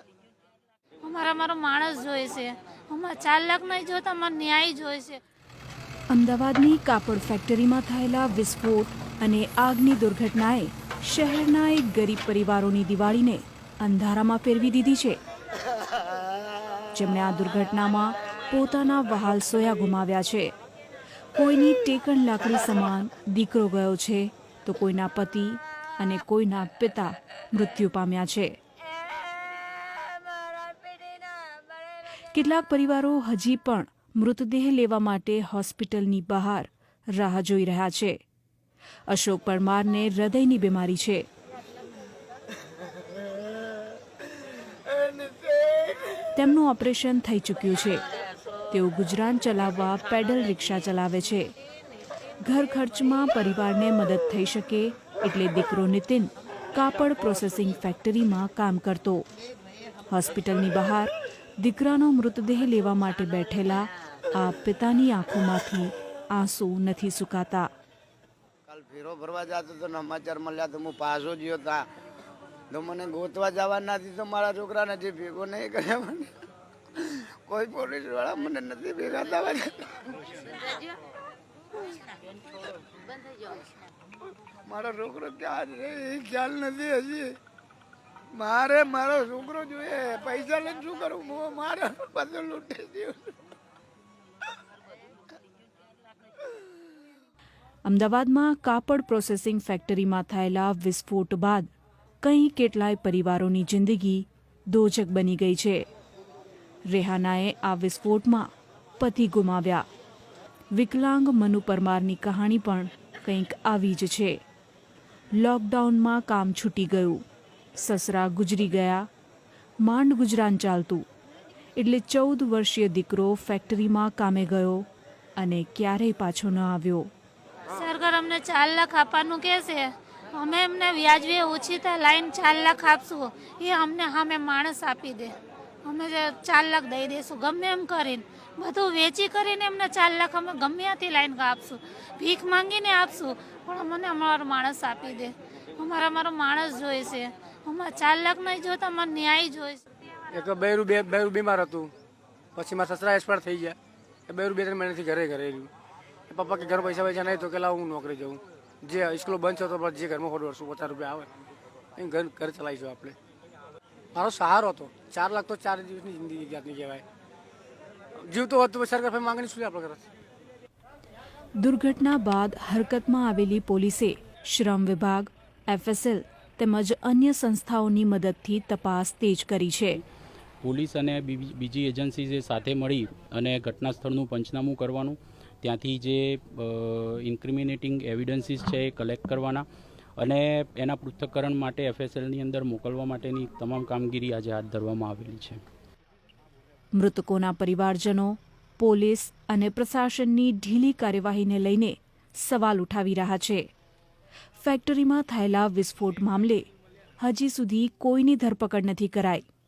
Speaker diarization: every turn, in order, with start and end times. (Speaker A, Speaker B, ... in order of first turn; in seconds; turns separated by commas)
Speaker A: 1.0-5.2, Speaker B: 6.1-15.2, Speaker B: 16.9-20.5, Speaker B: 21.4-28.5, Speaker B: 32.3-38.2, Speaker B: 39.1-41.3, Speaker B: 46.3-48.0, Speaker B: 48.7-51.5, Speaker B: 52.4-59.2, Speaker B: 60.1-67.7, Speaker C: 68.7-71.9, Speaker C: 72.7-76.3, Speaker C: 77.0-80.1, Speaker C: 84.7-87.3, Speaker C: 88.3-93.2, Speaker B: 97.8-101.7, Speaker B: 102.2-105.8, Speaker B: 106.9-108.5, Speaker B: 109.0-109.9, Speaker B: 110.7-114.4, Speaker B: 115.4-117.2, Speaker B: 117.8-119.1, Speaker B: 119.8-121.0, Speaker B: 121.8-127.1, Speaker A: 127.7-149.8, Speaker D: 150.3-151.9, Speaker D: 152.6-153.8, Speaker D: 154.3-155.7, Speaker D: 156.3-161.3, Speaker D: 162.0-163.2, Speaker D: 164.1-167.0, Speaker D: 168.2-170.1, Speaker B: 171.6-180.0, Speaker E: 180.6-189.7, Speaker E: 190.2-195.6, Speaker B: 197.0-203.7, Speaker B: 204.6-206.7, Speaker B: 207.2-209.5